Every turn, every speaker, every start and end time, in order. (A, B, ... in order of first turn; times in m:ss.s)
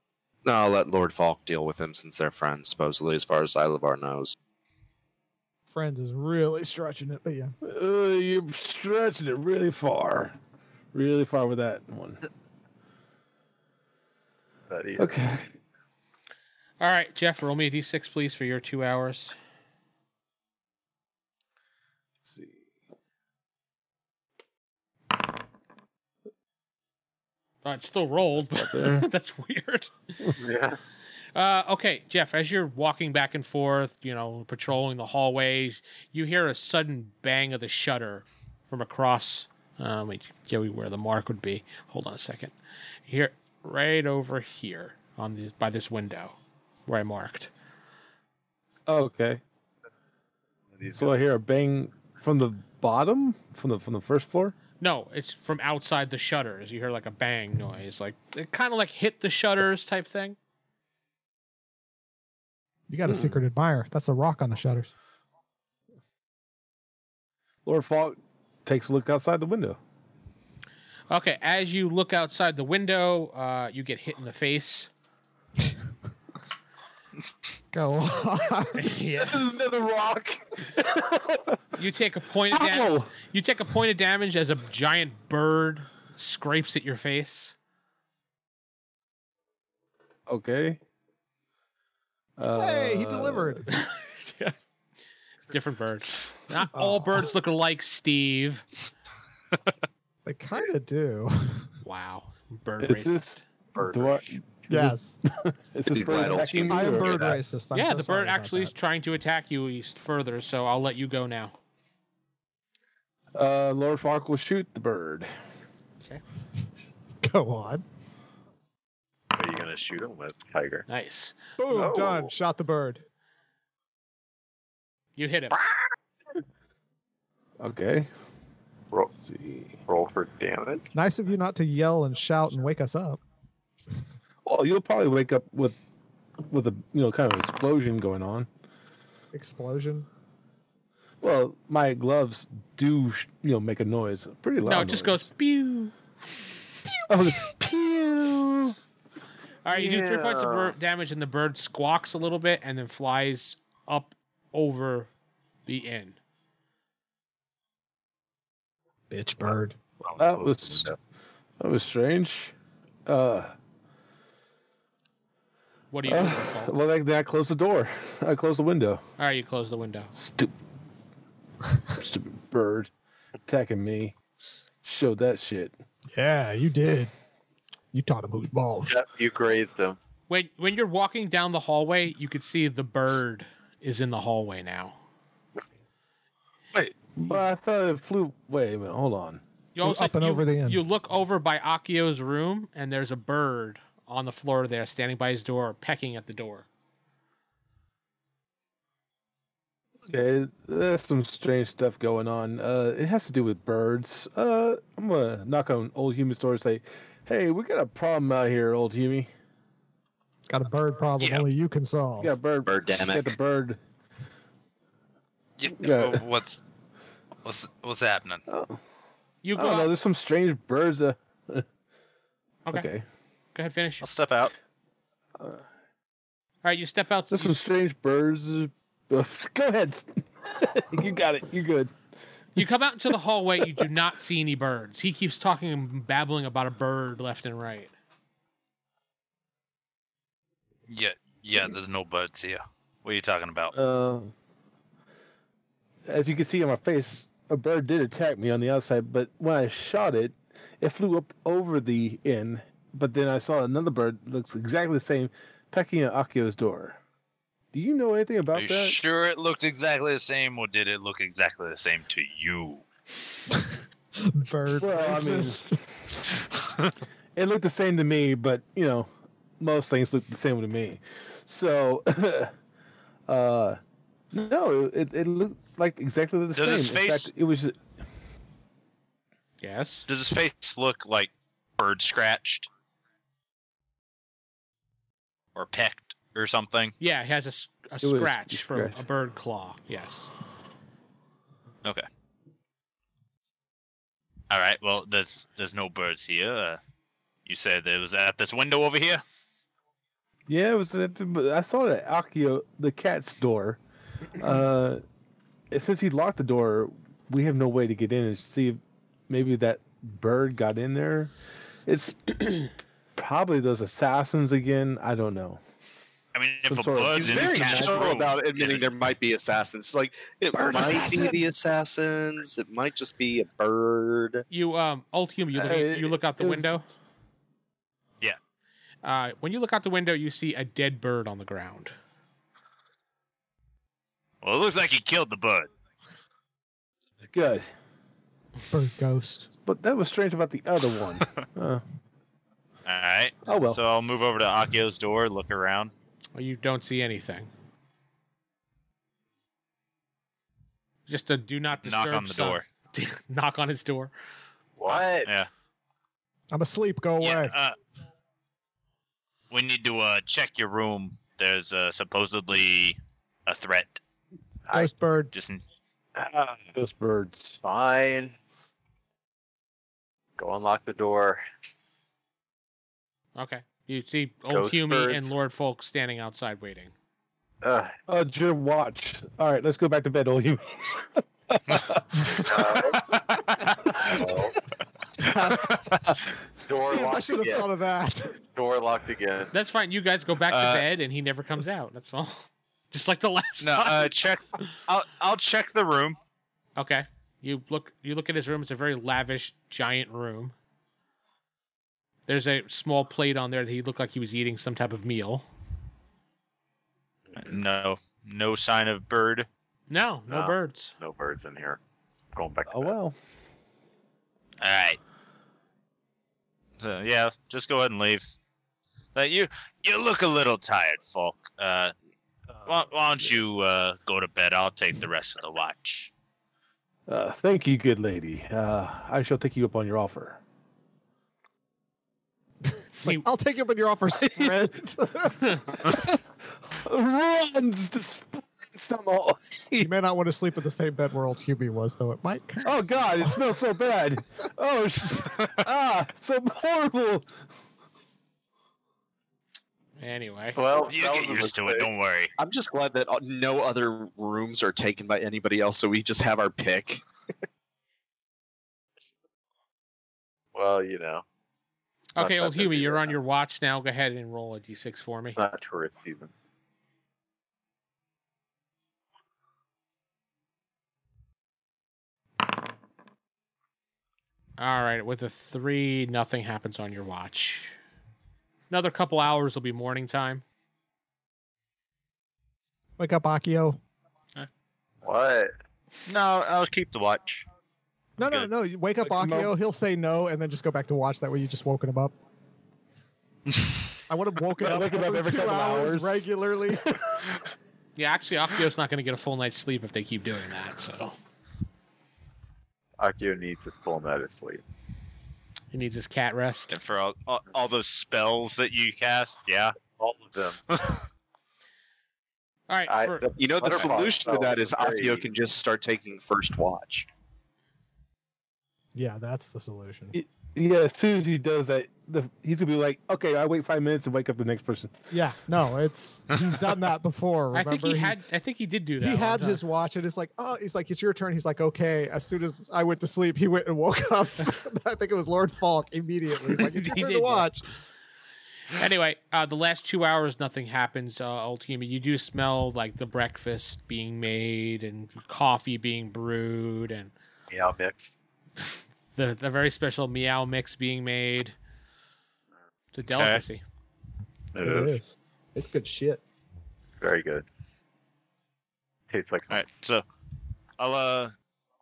0:00.4-0:04.4 A
0:05.7-0:07.5 B
0:07.6-0:10.4 C
0:10.9-0:12.2 C
0:14.7-0:15.2 D
0:15.0-0:15.5 C
0:16.8-0:19.4 E
0:22.3-0:22.6 C
0:27.6-0:30.0 E
0:28.4-0:29.1 C
0:30.4-0:30.8 D
0:31.4-0:42.5 E
0:43.1-0:47.5 E
0:48.9-0:49.4 C
0:50.8-0:51.4 D
0:51.0-0:54.6 C
0:54.8-1:00.4 E
1:02.9-1:04.9 B
1:03.1-1:03.4 C
1:07.6-1:09.8 C
1:11.1-1:14.9 E
1:17.7-1:18.9 B
1:18.8-1:19.6 E
1:19.2-1:21.6 C
1:21.8-1:27.6 E
1:22.5-1:23.1 C
1:30.3-1:30.8 C
1:32.4-1:33.6 C
1:32.5-1:33.6 B
1:33.7-1:34.5 E
1:35.5-1:38.6 E
1:36.7-1:37.3 B
1:40.2-1:41.7 B
1:41.8-1:43.4 E
1:42.8-1:47.4 C
1:43.8-1:44.4 D
1:44.7-1:45.2 B
1:45.9-1:47.4 A
1:46.7-1:48.7 B
1:47.7-1:51.6 E
1:53.4-1:55.3 C
1:57.2-1:57.8 B
1:59.3-2:00.8 D
2:00.9-2:01.4 E
2:01.6-2:03.0 B
2:01.7-2:02.3 D
2:05.2-2:05.6 E
2:07.6-2:08.1 C
2:08.9-2:09.3 D
2:09.3-2:09.7 C
2:09.9-2:10.9 D
2:10.9-2:13.2 B
2:14.4-2:15.8 C
2:16.4-2:18.5 C
2:19.3-2:20.1 B
2:21.2-2:25.3 C
2:24.6-2:25.9 E
2:27.1-2:28.8 C
2:29.6-2:35.1 E
2:29.8-2:30.8 D
2:35.7-2:36.2 E
2:39.1-2:39.8 B
2:40.0-2:41.0 D
2:40.2-2:40.9 C
2:41.6-2:42.5 C
2:43.1-2:43.5 C
2:45.9-2:46.8 E
2:46.0-2:49.0 C
2:49.2-2:50.1 E
2:50.2-2:50.6 C
2:51.9-2:52.9 C
2:53.5-2:54.2 C
2:54.8-2:55.8 C
2:56.1-2:57.1 B
2:57.9-2:59.0 B
2:58.9-3:00.0 D
3:00.3-3:05.0 E
3:06.7-3:09.4 C
3:09.8-3:16.7 E
3:09.8-3:10.8 B
3:20.1-3:29.3 C
3:30.5-3:32.3 B
3:31.2-3:31.5 F
3:32.2-3:33.8 C
3:32.7-3:33.4 A
3:35.6-3:36.6 F
3:35.8-3:36.2 C
3:37.4-3:38.4 F
3:38.5-3:38.8 C
3:39.4-3:39.9 E
3:39.6-3:41.6 C
3:42.7-3:43.0 C
3:43.6-3:44.1 E
3:44.0-3:44.5 F
3:46.6-3:47.6 E
3:47.3-3:51.9 C
3:52.6-3:57.9 E
4:00.9-4:03.7 F
4:03.7-4:04.3 C
4:06.1-4:17.0 C
4:17.7-4:19.0 C
4:18.5-4:22.8 F
4:24.2-4:25.8 B
4:24.8-4:25.6 C
4:27.4-4:29.1 C
4:29.6-4:32.5 C
4:33.3-4:33.8 C
4:34.3-4:37.9 C
4:36.6-4:37.3 F
4:39.6-4:40.1 E
4:40.1-4:42.7 F
4:45.6-4:46.9 F
4:47.0-4:50.3 E
4:48.0-4:49.0 C
4:54.5-4:56.8 F
4:57.5-4:59.2 F
5:00.5-5:03.8 C
5:04.4-5:05.0 C
5:05.7-5:11.3 C
5:11.9-5:15.6 C
5:16.3-5:18.9 F
5:16.7-5:18.3 C
5:17.2-5:24.4 A
5:20.6-5:21.4 C
5:24.5-5:26.8 E
5:25.6-5:26.8 C
5:29.0-5:31.9 E
5:34.4-5:35.7 F
5:37.3-5:37.7 C
5:38.7-5:39.5 B
5:39.7-5:41.8 C
5:42.8-5:45.9 F
5:43.5-5:43.8 C
5:46.4-5:47.5 E
5:51.1-5:54.1 E
5:51.8-5:52.6 F
5:54.8-5:55.5 D
5:54.9-5:55.5 F
5:56.5-5:57.5 B
5:57.2-5:57.8 F
5:59.5-6:04.0 F
6:04.7-6:05.3 B
6:05.3-6:05.6 F
6:06.2-6:06.8 D
6:06.8-6:07.6 C
6:07.6-6:08.4 D
6:10.4-6:11.4 D
6:13.4-6:16.9 E
6:14.5-6:15.3 D
6:17.6-6:17.9 D
6:18.1-6:22.5 C
6:22.3-6:23.1 D
6:24.0-6:24.6 D
6:25.2-6:26.0 B
6:26.7-6:27.7 D
6:26.9-6:28.4 B
6:28.5-6:29.5 D
6:29.5-6:34.1 E
6:30.5-6:30.9 F
6:33.6-6:36.2 F
6:36.8-6:40.6 E
6:42.3-6:45.5 E
6:47.4-6:49.5 F
6:49.9-6:51.0 E
6:50.3-6:51.8 D
6:52.4-6:53.0 D
6:52.7-6:53.2 C
6:54.6-6:55.0 F
6:56.8-6:58.4 F
6:59.2-7:01.9 F
7:02.5-7:03.5 C
7:02.7-7:06.1 F
7:07.1-7:10.4 C
7:12.6-7:16.1 B
7:13.0-7:13.3 E
7:14.2-7:14.5 C
7:15.9-7:16.2 C
7:16.7-7:19.9 C
7:19.8-7:23.4 B
7:22.6-7:27.3 C
7:25.4-7:25.6 F
7:30.0-7:30.6 E
7:30.5-7:31.9 D
7:30.9-7:32.3 F
7:32.4-7:37.0 A
7:40.5-7:41.2 D
7:42.2-7:45.4 E
7:42.2-7:43.2 D
7:45.4-7:46.3 D
7:54.6-7:57.8 E
7:58.7-8:00.4 E
8:03.0-8:03.8 B
8:05.0-8:05.5 D
8:06.1-8:07.5 F
8:08.2-8:12.1 B
8:08.2-8:08.5 F
8:09.0-8:09.5 C
8:14.1-8:16.9 B
8:14.6-8:16.2 C
8:18.0-8:21.2 E
8:23.0-8:24.6 D
8:25.7-8:26.8 E
8:26.7-8:29.8 F
8:29.9-8:30.6 D
8:30.7-8:31.0 F
8:32.7-8:33.3 E
8:32.9-8:35.3 D
8:33.4-8:37.1 A
8:39.0-8:40.1 B
8:40.1-8:45.1 C
8:45.1-8:48.2 B
8:47.5-8:49.6 E
8:49.0-8:57.6 B
8:56.6-8:57.5 E
8:58.7-9:07.1 E
9:07.5-9:08.1 D
9:08.6-9:11.6 E
9:12.9-9:13.6 E
9:13.1-9:13.4 F
9:14.6-9:15.0 D
9:14.6-9:16.2 B
9:17.0-9:17.5 D
9:19.1-9:19.6 D
9:19.5-9:20.0 F
9:20.8-9:21.3 F